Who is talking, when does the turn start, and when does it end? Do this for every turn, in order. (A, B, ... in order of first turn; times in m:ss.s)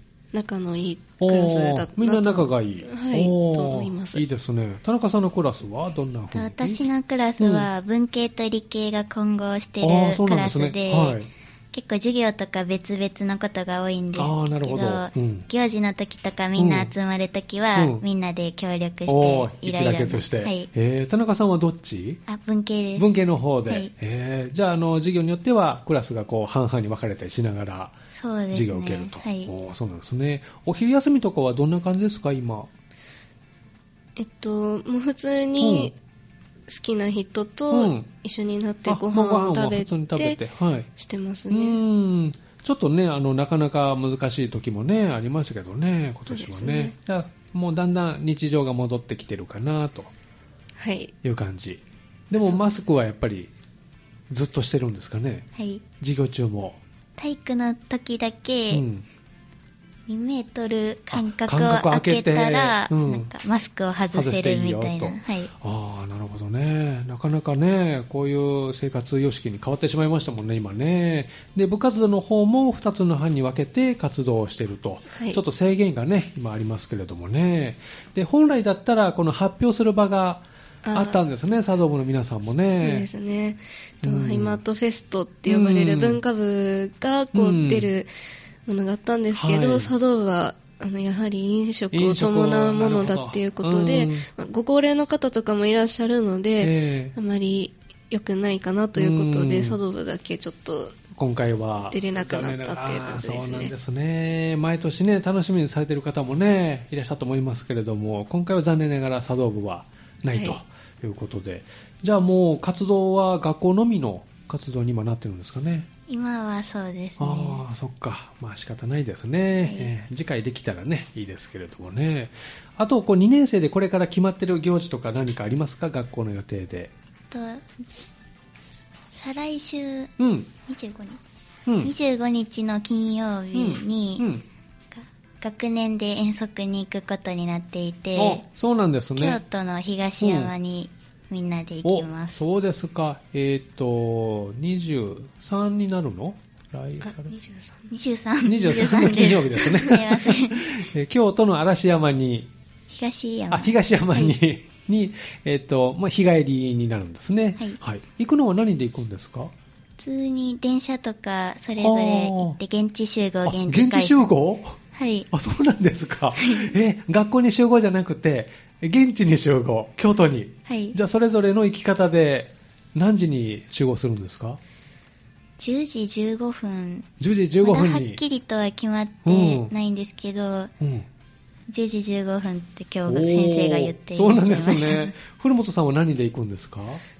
0:00.3-0:04.2 A
0:01.2-0:06.8 B
0:06.3-0:11.2 C
0:07.4-0:07.7 B
0:09.8-0:11.3 B
0:11.7-0:20.7 C
0:14.2-0:15.4 B
0:16.6-0:16.9 B
0:17.8-0:18.0 B
0:19.1-0:22.2 B
0:22.3-0:23.9 C
0:23.0-0:28.0 B
0:28.1-0:29.5 C
0:28.5-0:32.7 B
0:34.2-0:35.9 A
0:35.6-0:35.9 B
0:36.7-0:40.4 A
0:37.7-0:38.1 B
0:38.9-0:40.9 B
0:41.0-0:41.8 A
0:41.5-0:50.1 B
0:46.3-0:46.9 A
0:50.8-0:51.1 A
0:51.2-0:53.5 B
0:54.3-0:55.5 B
0:55.6-0:55.8 C
0:56.0-0:56.8 B
0:57.2-0:58.8 C
0:58.7-0:59.0 B
1:00.1-1:05.5 C
1:01.1-1:03.3 B
1:04.1-1:23.1 B
1:15.1-1:15.4 A
1:20.8-1:21.2 A
1:22.7-1:28.1 A
1:24.0-1:24.6 B
1:25.5-1:26.2 B
1:27.3-1:27.9 B
1:28.7-1:41.0 A
1:29.3-1:29.9 B
1:31.9-1:34.3 B
1:36.6-1:37.1 B
1:38.9-1:39.8 B
1:41.2-1:55.9 B
1:41.9-1:43.7 A
1:56.1-1:57.6 C
1:57.2-2:06.9 B
2:07.3-2:07.7 C
2:09.1-2:10.1 C
2:10.2-2:10.5 B
2:10.7-2:14.3 C
2:11.6-2:11.9 B
2:13.5-2:14.4 B
2:14.9-2:18.4 C
2:18.2-2:19.4 B
2:19.2-2:22.4 C
2:20.2-2:20.5 B
2:21.8-2:27.3 B
2:27.0-2:27.9 A
2:27.9-2:30.8 C
2:28.4-2:32.5 B
2:32.9-2:34.3 C
2:33.5-2:39.5 B
2:40.0-2:44.3 C
2:41.8-2:42.6 B
2:43.4-2:44.8 B
2:44.9-2:45.3 C
2:45.3-2:54.6 B
2:46.4-2:46.7 C
2:50.7-2:51.0 C
2:55.6-2:57.1 C
2:57.2-2:58.2 B
2:57.6-3:00.7 C
2:59.2-2:59.7 B
3:00.8-3:01.1 B
3:01.7-3:05.2 C
3:03.1-3:07.0 B